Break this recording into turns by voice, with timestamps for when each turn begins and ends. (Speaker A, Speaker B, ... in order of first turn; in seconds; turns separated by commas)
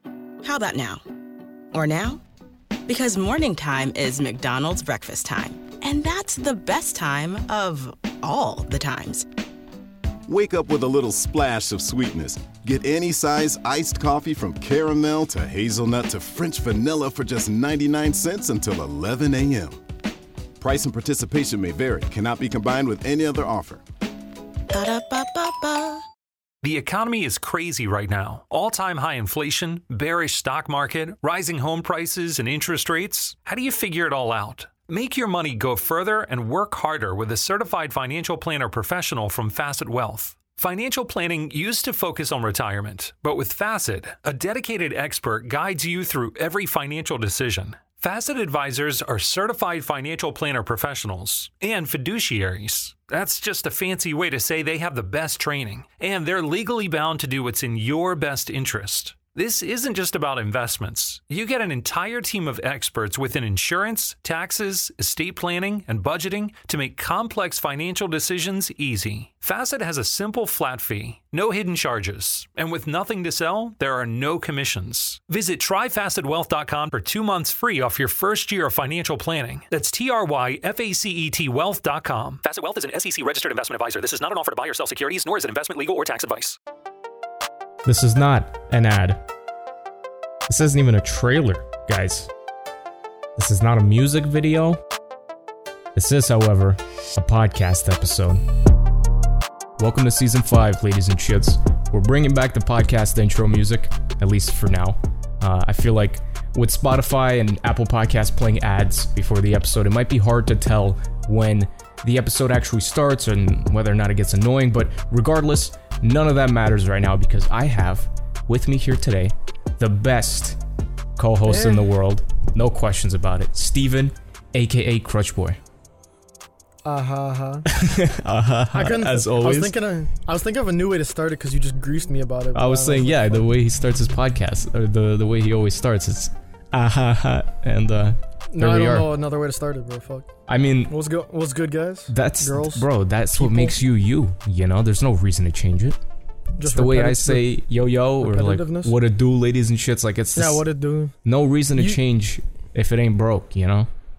Speaker A: 0.4-1.0, Speaker A: 1.7-2.2, Speaker A: 2.9-9.3, Speaker B: 10.3-19.8, Speaker B: 20.6-23.8, Speaker A: 24.7-26.0, Speaker C: 26.6-86.6, Speaker D: 87.8-89.2, Speaker D: 90.5-92.3, Speaker D: 93.4-94.8, Speaker D: 96.0-98.4, Speaker D: 99.8-120.6, Speaker D: 121.2-125.6, Speaker E: 121.5-121.8, Speaker E: 126.8-127.7, Speaker D: 127.7-129.8, Speaker E: 128.7-133.5, Speaker D: 132.5-139.1, Speaker E: 138.5-140.3, Speaker D: 140.5-140.9, Speaker E: 140.9-143.8, Speaker D: 142.1-146.0, Speaker E: 146.6-147.5, Speaker D: 146.6-150.7, Speaker E: 148.2-148.9, Speaker E: 150.3-151.2, Speaker D: 151.2-153.9